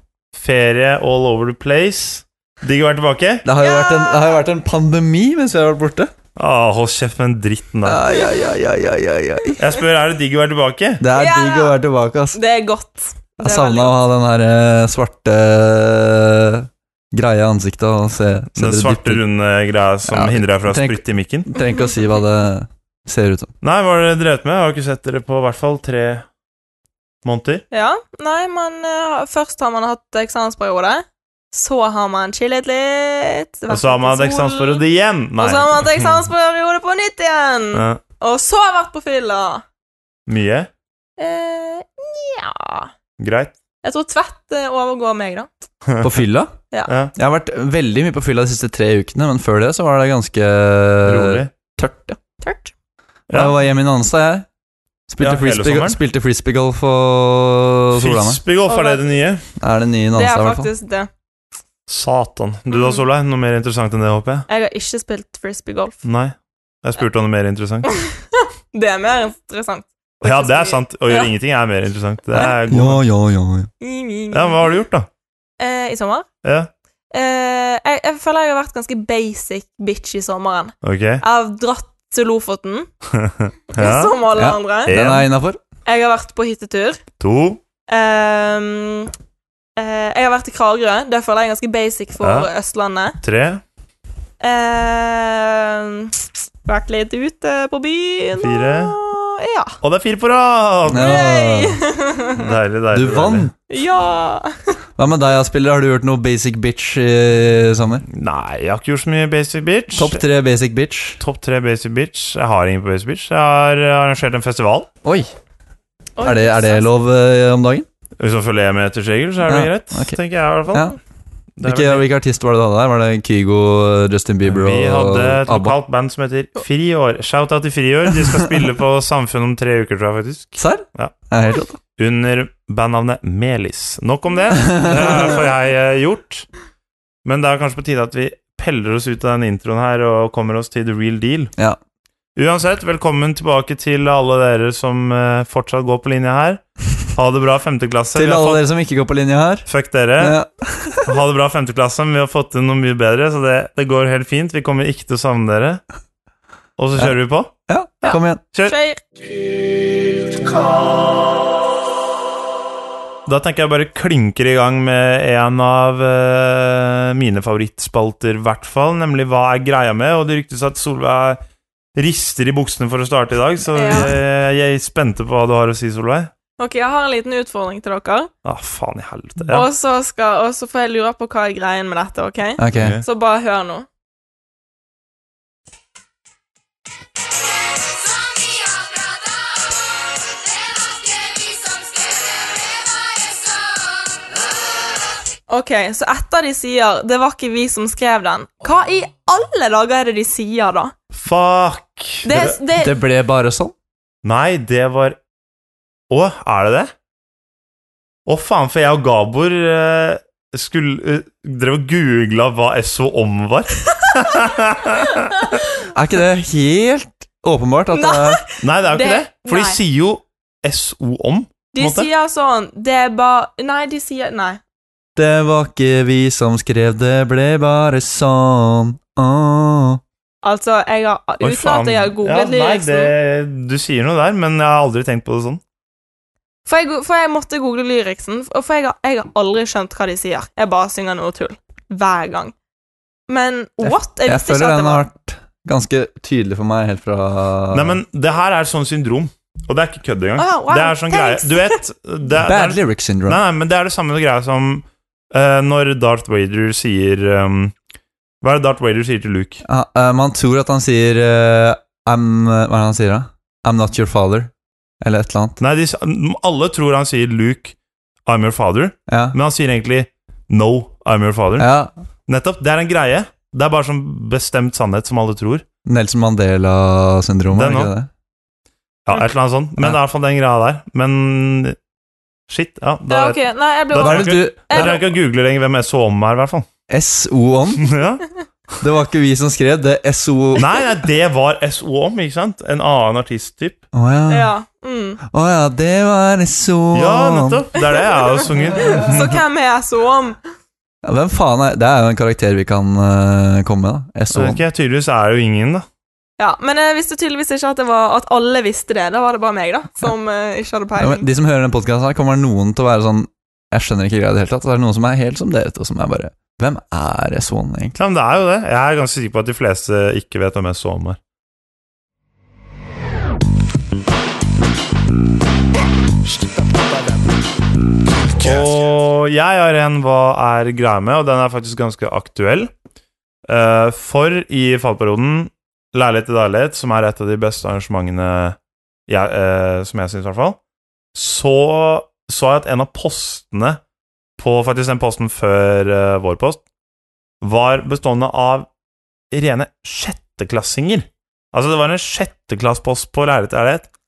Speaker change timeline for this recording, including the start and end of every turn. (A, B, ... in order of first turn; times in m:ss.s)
0:00.3-0:03.4 A
0:03.4-0:06.1 B
0:03.6-0:04.4 C
0:06.4-0:08.0 A
0:07.8-0:09.6 B
0:09.6-0:11.0 A
0:11.0-0:12.4 B
0:11.1-0:11.8 C
0:12.3-0:14.0 C
0:13.4-0:19.2 B
0:18.6-0:21.5 A
0:20.1-0:23.5 B
0:23.6-0:26.3 A
0:27.2-0:27.6 A
0:27.7-0:34.8 C
0:33.7-0:36.1 A
0:35.4-0:39.6 C
0:37.7-0:38.0 A
0:40.3-0:40.7 A
0:41.2-0:42.9 C
0:43.2-0:43.5 A
0:43.8-0:45.5 C
0:45.8-0:46.2 A
0:46.0-0:46.5 B
0:46.9-0:47.1 A
0:47.2-0:52.2 B
0:51.0-0:51.5 A
0:52.4-0:52.7 C
0:53.3-0:54.5 B
0:55.1-0:58.4 B
0:55.2-0:56.0 A
0:57.9-0:59.4 A
0:58.6-0:59.0 C
0:59.6-1:00.7 B
1:00.1-1:01.1 C
1:01.9-1:04.5 A
1:02.7-1:03.0 C
1:04.5-1:06.0 C
1:06.0-1:07.9 A
1:07.8-1:11.3 C
1:10.2-1:13.0 A
1:12.3-1:13.7 B
1:13.8-1:14.6 C
1:14.3-1:15.1 A
1:15.6-1:16.2 C
1:16.4-1:16.7 A
1:17.1-1:22.9 C
1:20.8-1:21.2 A
1:23.1-1:24.2 A
1:23.7-1:24.9 C
1:24.3-1:25.6 B
1:24.9-1:25.2 A
1:25.8-1:27.0 C
1:27.2-1:27.6 A
1:27.9-1:29.1 C
1:29.8-1:33.2 C
1:32.2-1:32.5 A
1:33.2-1:33.6 A
1:34.4-1:39.8 C
1:38.4-1:39.0 A
1:39.8-1:41.2 A
1:40.9-1:41.8 B
1:40.9-1:42.5 C
1:42.3-1:43.5 A
1:42.9-1:43.5 B
1:43.7-1:44.7 C
1:45.0-1:48.0 B
1:48.1-1:50.2 A
1:49.9-1:51.2 B
1:51.2-1:54.9 A
1:55.0-1:55.3 B
1:56.2-1:56.9 C
1:56.2-1:57.9 B
1:58.2-2:01.0 A
1:59.4-2:00.2 B
2:00.7-2:01.0 B
2:01.6-2:02.1 A
2:01.6-2:05.8 B
2:04.5-2:11.1 A
2:10.6-2:11.8 B
2:12.0-2:16.5 A
2:14.5-2:15.4 B
2:17.2-2:21.5 A
2:22.4-2:26.6 A
2:27.1-2:28.6 A
2:28.1-2:29.7 B
2:29.7-2:30.4 A
2:30.2-2:31.1 B
2:31.0-2:35.8 A
2:36.8-2:37.5 A
2:37.7-2:38.4 B
2:38.0-2:39.0 C
2:38.1-2:38.7 A
2:43.2-2:51.4 A
2:51.9-2:56.3 A
2:53.7-2:54.1 C
2:56.6-2:58.3 C
2:58.4-2:59.7 A
2:59.5-3:03.9 C
3:02.6-3:03.0 B
3:02.7-3:03.0 A
3:15.5-3:20.9 C
3:21.1-3:22.6 A
3:22.2-3:23.0 C
3:22.8-3:23.7 B
3:24.2-3:25.2 A
3:26.1-3:26.9 A
3:28.2-3:35.6 A
3:35.9-3:38.4 B
3:37.9-3:39.8 C
3:38.6-3:42.1 A
3:41.7-3:44.6 C
3:45.2-3:50.0 B
3:50.4-3:53.1 C
3:51.4-3:55.6 A
3:56.6-4:02.5 C
4:03.3-4:05.0 C
4:03.8-4:08.0 B
4:07.7-4:17.7 A
4:10.4-4:11.8 C
4:12.4-4:13.4 B
4:18.4-4:19.6 A
4:19.6-4:24.5 B
4:25.0-4:25.6 B
4:25.6-4:27.7 A
4:28.2-4:31.7 A
4:29.1-4:29.4 B
4:31.6-4:31.9 B
4:32.3-4:35.6 A
4:35.8-4:38.1 B
4:37.5-4:37.9 A
4:39.0-4:41.8 A
4:42.5-4:46.7 A
4:43.1-4:45.0 C
4:44.0-4:45.1 B
4:46.9-4:47.9 B
4:47.8-4:48.2 A
4:48.8-4:50.7 B
4:50.6-4:53.8 A
4:53.9-4:54.5 B
4:54.3-4:55.2 C
4:55.3-4:57.6 B
4:56.9-4:59.4 A
4:57.8-5:00.4 C
5:01.0-5:04.6 B
5:04.3-5:05.8 A
5:06.4-5:11.3 C
5:11.0-5:18.0 B
5:18.0-5:21.2 A
5:28.4-5:32.7 A
5:33.5-5:38.6 A
5:39.1-5:40.6 A
5:41.1-5:43.8 A
5:44.4-5:46.6 A
5:47.4-5:48.7 A
5:49.3-5:53.9 A